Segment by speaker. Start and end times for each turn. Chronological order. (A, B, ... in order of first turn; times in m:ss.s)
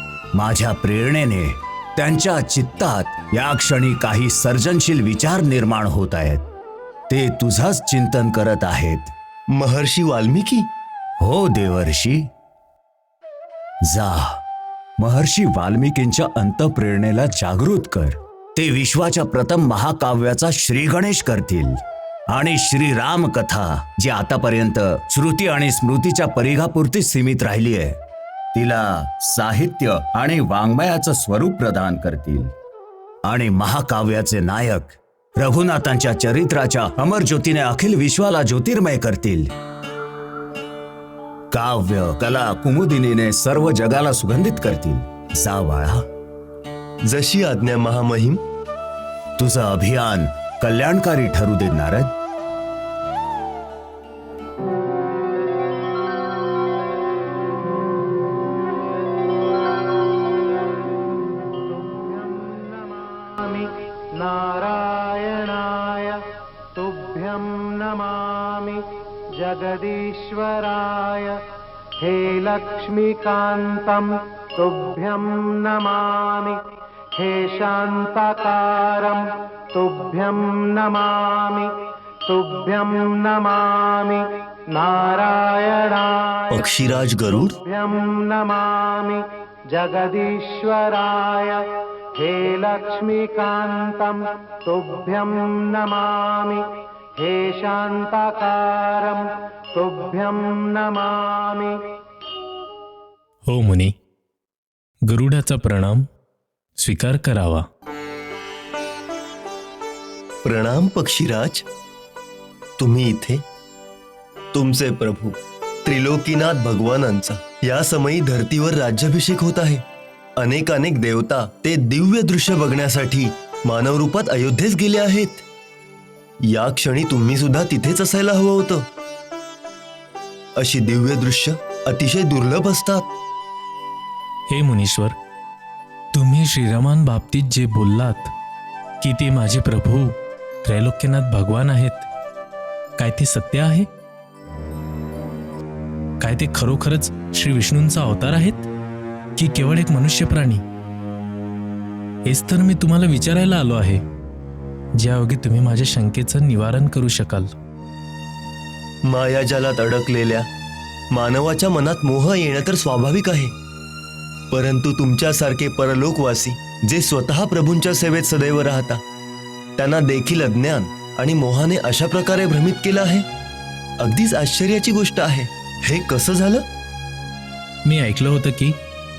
0:00.3-0:06.4 A
0:07.1-0:09.1 A
0:09.5-0:10.7 B
0:11.2-0:12.3 A
0:13.9-0:14.4 A
0:15.0-0:28.0 A
0:28.5-0:32.5 A
0:33.3-0:39.5 A
0:41.5-0:46.1 A
0:47.1-0:48.4 B
0:49.4-0:52.1 A
1:01.7-1:06.2 C
1:06.8-1:08.8 C
1:09.4-1:11.4 C
1:12.0-1:16.6 C
1:17.2-1:21.7 C
1:22.3-1:31.6 C
1:26.5-1:27.6 B
1:32.2-1:36.7 C
1:37.2-1:41.8 C
1:43.5-1:44.0 D
1:45.0-1:46.1 D
1:46.8-1:47.7 D
1:50.4-1:51.7 B
1:52.8-1:53.4 B
1:54.5-1:59.8 B
2:00.4-2:05.4 B
2:06.4-2:08.9 B
2:10.6-2:13.1 B
2:14.5-2:15.2 D
2:16.1-2:18.3 D
2:19.0-2:22.1 D
2:23.0-2:23.9 D
2:26.2-2:28.7 D
2:29.4-2:30.6 D
2:32.3-2:34.0 D
2:35.0-2:37.5 D
2:39.1-2:40.5 B
2:41.1-2:43.5 B
2:44.5-2:49.0 B
2:49.8-2:53.3 B
2:54.0-2:56.6 B
2:57.8-2:58.8 D